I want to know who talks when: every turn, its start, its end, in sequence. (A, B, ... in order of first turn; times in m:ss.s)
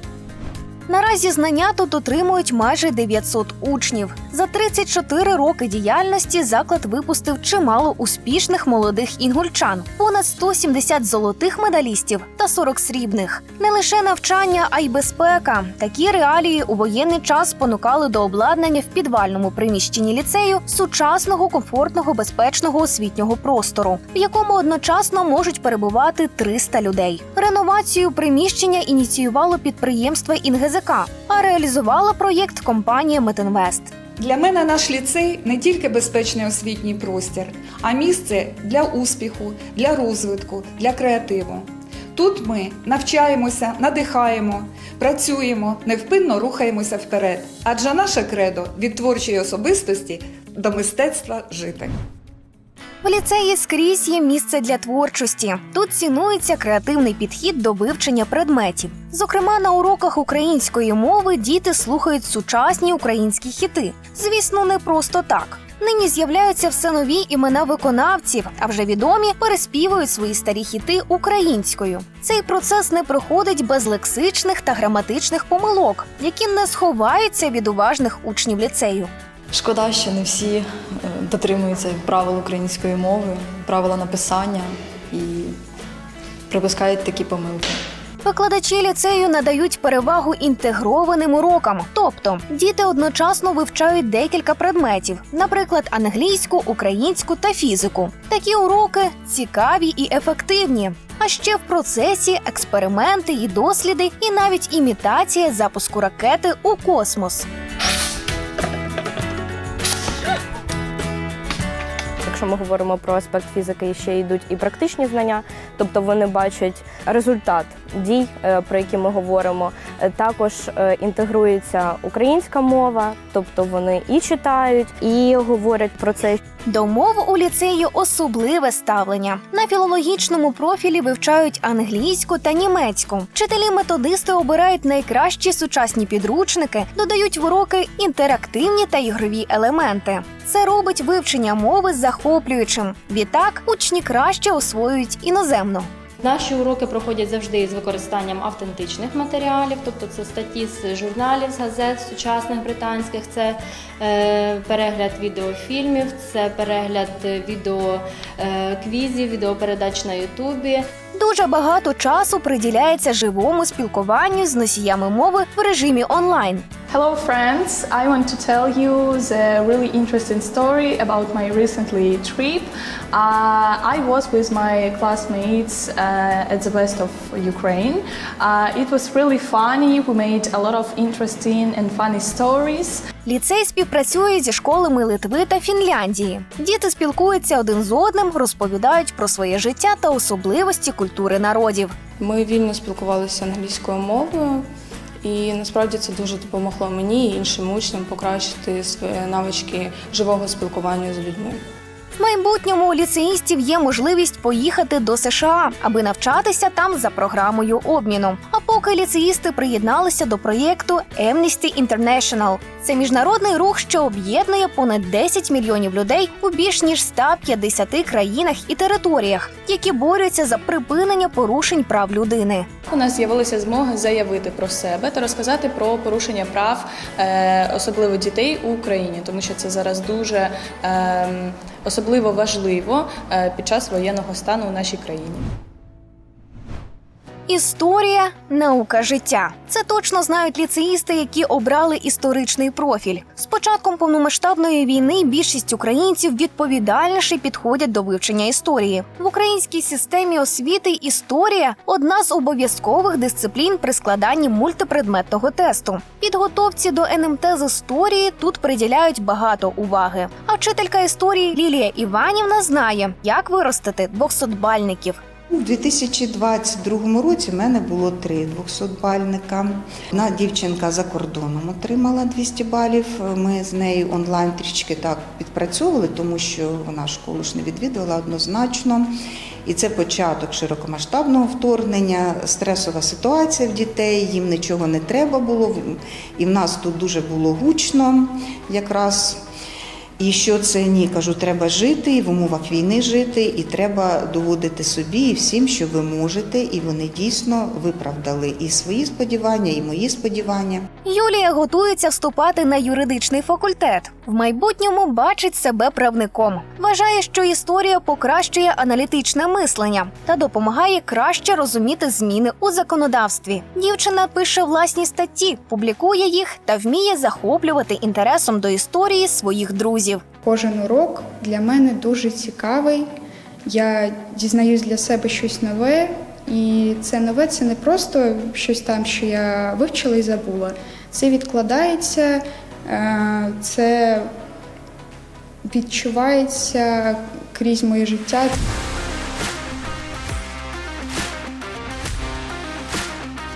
0:00.9-0:33.9 A
0:34.2-0:51.9 B
0:53.0-1:19.1 A
1:19.5-1:25.5 C
1:26.5-1:27.8 C
1:28.2-1:47.5 A
1:52.2-2:06.4 D
2:06.7-2:25.9 A
2:26.2-2:40.9 E
2:41.2-2:46.7 A
2:46.9-3:03.0 F
3:03.3-3:12.0 A
3:12.2-3:14.7 G
3:15.2-3:21.6 G
3:22.2-3:42.7 A
3:42.9-3:55.5 F
3:57.5-4:25.2 A
4:25.5-4:39.1 H
4:39.7-4:49.4 H
4:50.2-5:00.9 H
5:01.0-5:20.2 A
5:20.4-5:23.1 I
5:23.7-5:34.3 I
5:35.6-5:38.5 I